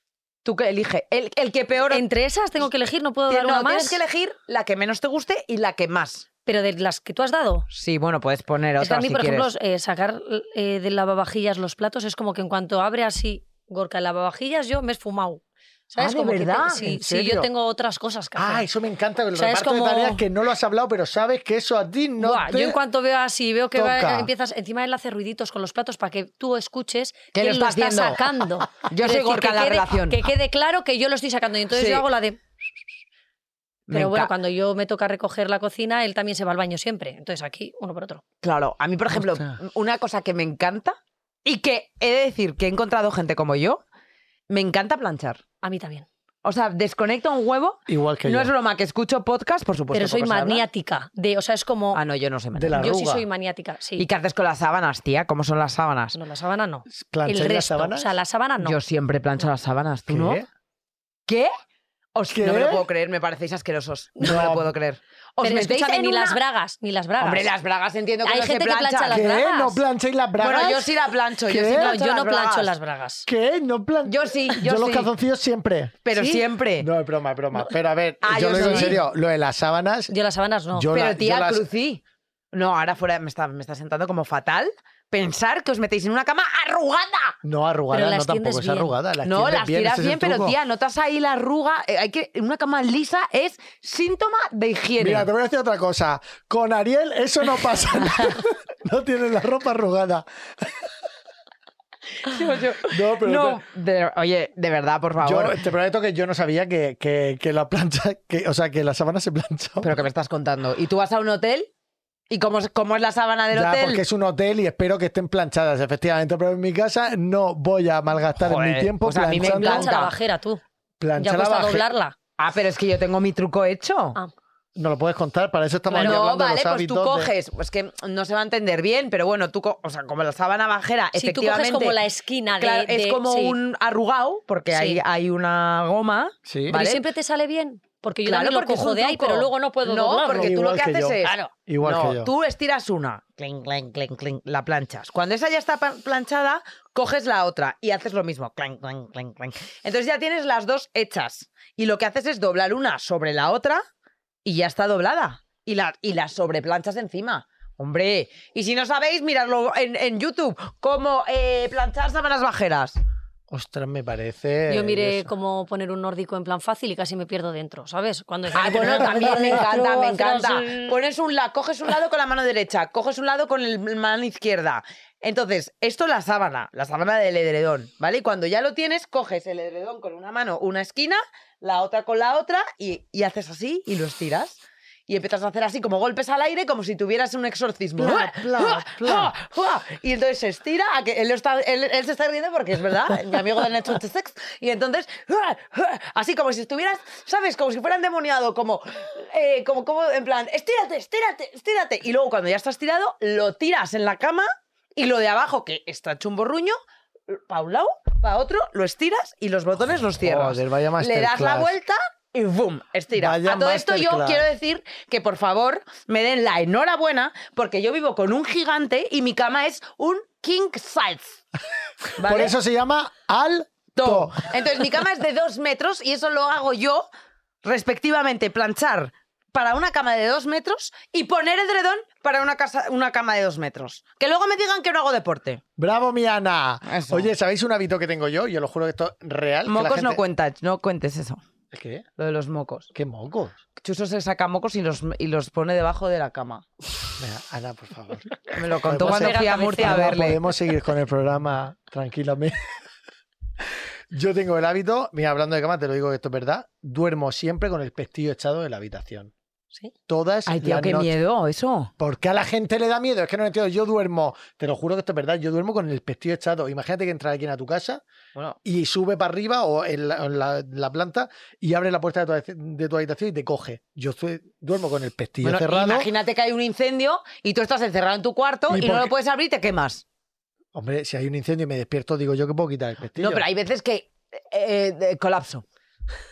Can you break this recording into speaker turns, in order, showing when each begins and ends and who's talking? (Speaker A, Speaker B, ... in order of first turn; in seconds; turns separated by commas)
Speaker A: 0.4-2.0, Speaker B: 1.9-4.0, Speaker A: 3.3-6.2, Speaker B: 6.5-7.7, Speaker A: 7.7-9.5, Speaker B: 8.8-18.6, Speaker A: 16.0-16.8, Speaker C: 16.8-17.5, Speaker C: 18.4-22.8, Speaker B: 19.3-20.2, Speaker B: 22.2-32.4, Speaker C: 23.7-24.3, Speaker A: 27.3-30.2, Speaker A: 31.7-32.0, Speaker A: 33.9-34.3, Speaker B: 33.9-38.2, Speaker A: 38.4-43.8, Speaker C: 39.2-39.5, Speaker A: 44.5-45.4, Speaker B: 45.6-46.0, Speaker A: 46.4-50.6, Speaker C: 47.9-48.5, Speaker B: 49.9-52.0, Speaker A: 51.9-52.8, Speaker C: 52.5-53.2, Speaker B: 52.8-54.0, Speaker A: 54.0-56.2, Speaker B: 56.1-58.8, Speaker C: 56.9-58.1, Speaker A: 58.6-60.4, Speaker C: 60.1-60.5, Speaker A: 61.3-61.5, Speaker A: 62.1-66.4, Speaker C: 62.3-62.8, Speaker C: 64.2-64.7, Speaker B: 65.4-67.5, Speaker A: 67.2-69.3, Speaker B: 68.2-69.8, Speaker C: 69.1-70.9, Speaker A: 70.4-72.7, Speaker C: 71.5-71.9, Speaker B: 71.7-73.3, Speaker C: 73.3-76.0, Speaker A: 74.0-75.1, Speaker A: 76.0-76.9, Speaker B: 76.1-76.4, Speaker C: 76.8-80.1, Speaker A: 78.2-79.0, Speaker B: 78.6-79.0, Speaker B: 80.1-80.9, Speaker C: 80.7-81.6, Speaker A: 80.9-82.0, Speaker A: 82.5-87.3, Speaker C: 87.4-90.5, Speaker B: 87.9-88.9, Speaker A: 89.2-95.3, Speaker C: 95.0-100.8, Speaker A: 102.2-105.6, Speaker C: 102.8-103.6, Speaker C: 105.2-110.0, Speaker A: 109.8-111.7, Speaker A: 112.3-114.0, Speaker C: 113.5-119.9, Speaker A: 118.4-120.1, Speaker B: 119.4-120.6, Speaker C: 121.0-121.9, Speaker B: 121.2-122.2, Speaker A: 122.4-124.2, Speaker C: 124.8-127.3, Speaker B: 125.9-126.2, Speaker A: 125.9-132.0, Speaker B: 131.1-133.6, Speaker A: 132.6-137.0, Speaker B: 134.7-135.0, Speaker C: 136.4-136.7, Speaker B: 136.7-140.5, Speaker A: 138.2-153.8, Speaker C: 140.3-142.3, Speaker B: 141.2-141.5, Speaker A: 154.4-163.0, Speaker C: 163.5-165.3, Speaker B: 164.7-170.9, Speaker A: 168.5-206.8, Speaker C: 168.6-169.6, Speaker C: 188.0-189.3, Speaker A: 207.3-221.4, Speaker C: 210.2-211.8, Speaker C: 213.1-214.5, Speaker A: 222.2-222.6, Speaker C: 222.2-224.5, Speaker A: 223.9-227.1, Speaker A: 227.6-235.6, Speaker C: 235.8-240.2, Speaker A: 236.9-237.3, Speaker A: 239.7-241.4, Speaker C: 241.7-242.0, Speaker A: 242.2-242.9, Speaker C: 242.9-243.6, Speaker A: 243.8-246.7, Speaker C: 247.2-252.7, Speaker A: 248.5-250.4, Speaker B: 248.9-250.2, Speaker C: 254.1-259.3, Speaker C: 260.1-261.1, Speaker A: 260.5-261.9, Speaker C: 262.0-268.0, Speaker C: 268.6-276.1, Speaker A: 275.4-280.0, Speaker C: 278.7-279.1, Speaker C: 280.7-283.4, Speaker A: 283.2-285.6